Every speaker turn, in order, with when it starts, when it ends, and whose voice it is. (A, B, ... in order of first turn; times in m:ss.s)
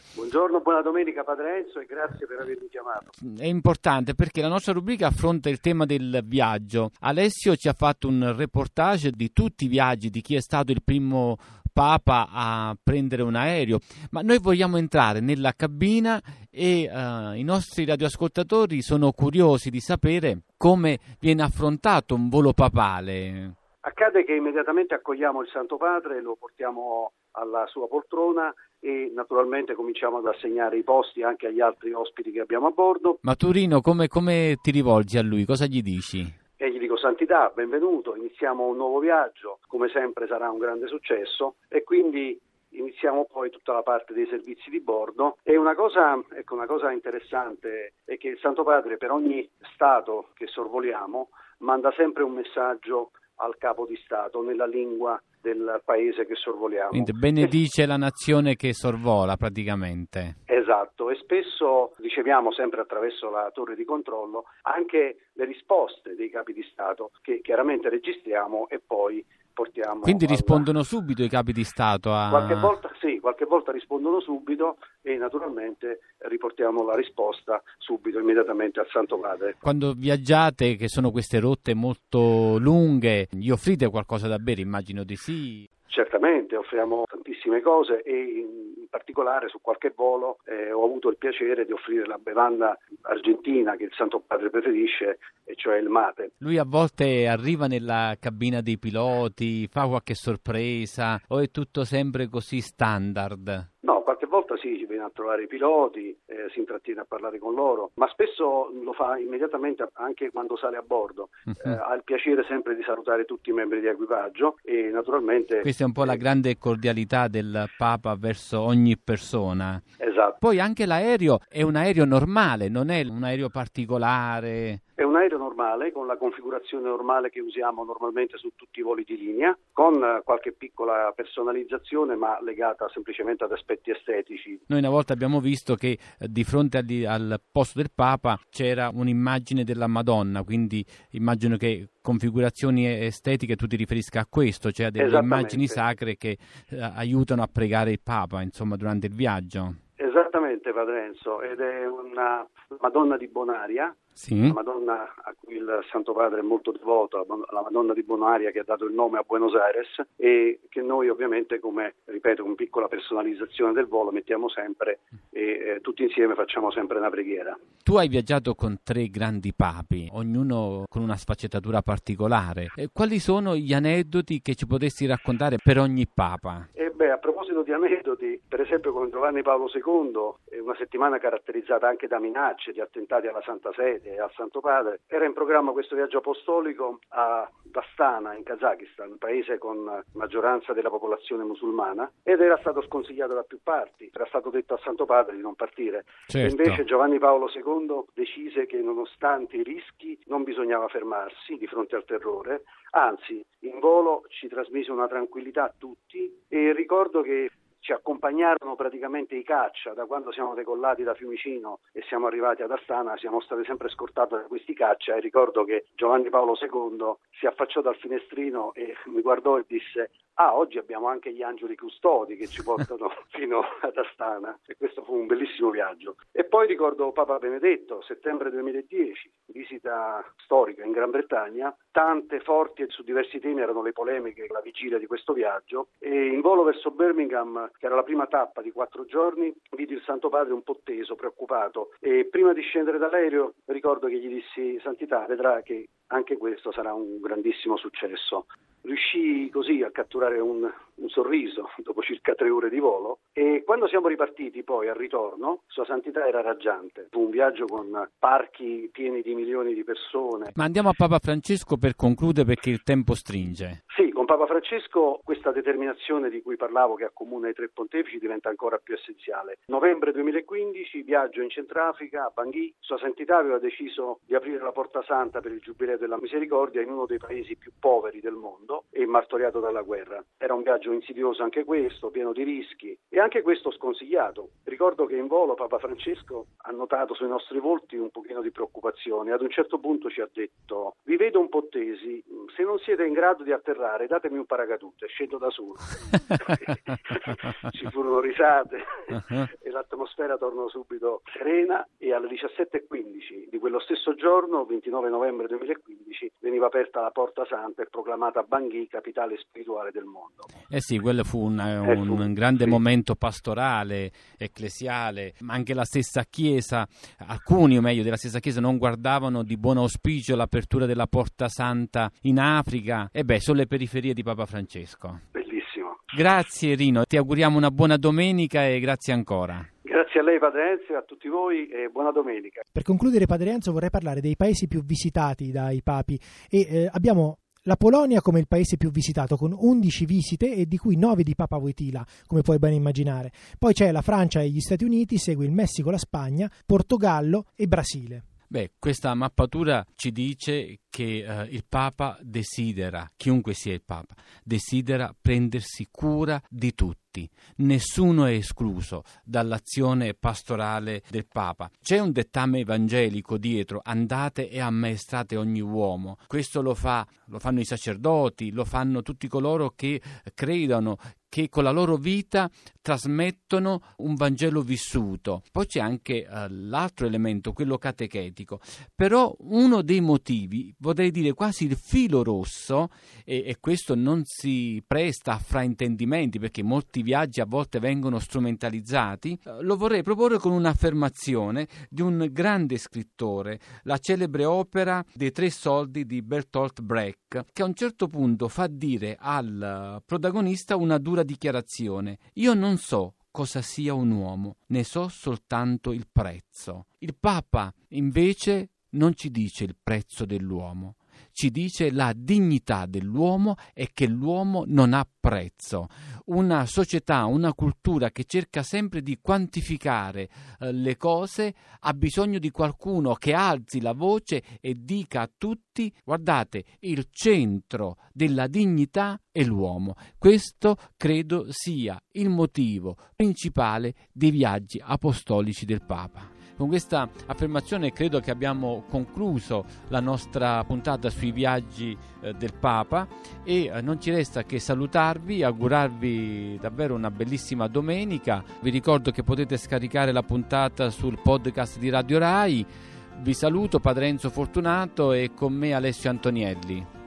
0:00.1-0:03.1 A
0:03.2-0:23.6 B
0:23.8-0:33.2 A
0:33.2-0:36.3 B
0:36.6-0:57.5 A
0:56.9-1:00.4 B
1:00.5-1:10.7 A
1:10.0-1:12.7 B
1:12.3-1:19.6 A
1:19.6-1:25.7 B
1:25.9-1:36.3 A
1:36.4-1:43.7 B
1:43.8-1:56.2 A
1:55.6-1:59.8 B
2:00.0-2:00.4 A
2:00.4-2:04.8 B
2:05.0-2:14.6 A
2:14.7-2:29.8 B
2:25.0-2:25.8 A
2:30.0-2:47.6 A
2:34.2-2:34.6 B
2:47.8-2:56.7 B
2:56.8-4:20.5 A
3:16.3-3:16.8 B
4:20.6-4:23.8 B
4:23.9-5:10.5 A
5:10.7-5:25.2 B
5:11.8-5:12.8 A
5:25.3-5:26.0 A
5:26.1-5:29.7 B
5:29.8-5:32.6 A
5:32.7-5:48.2 C
5:48.5-7:36.9 B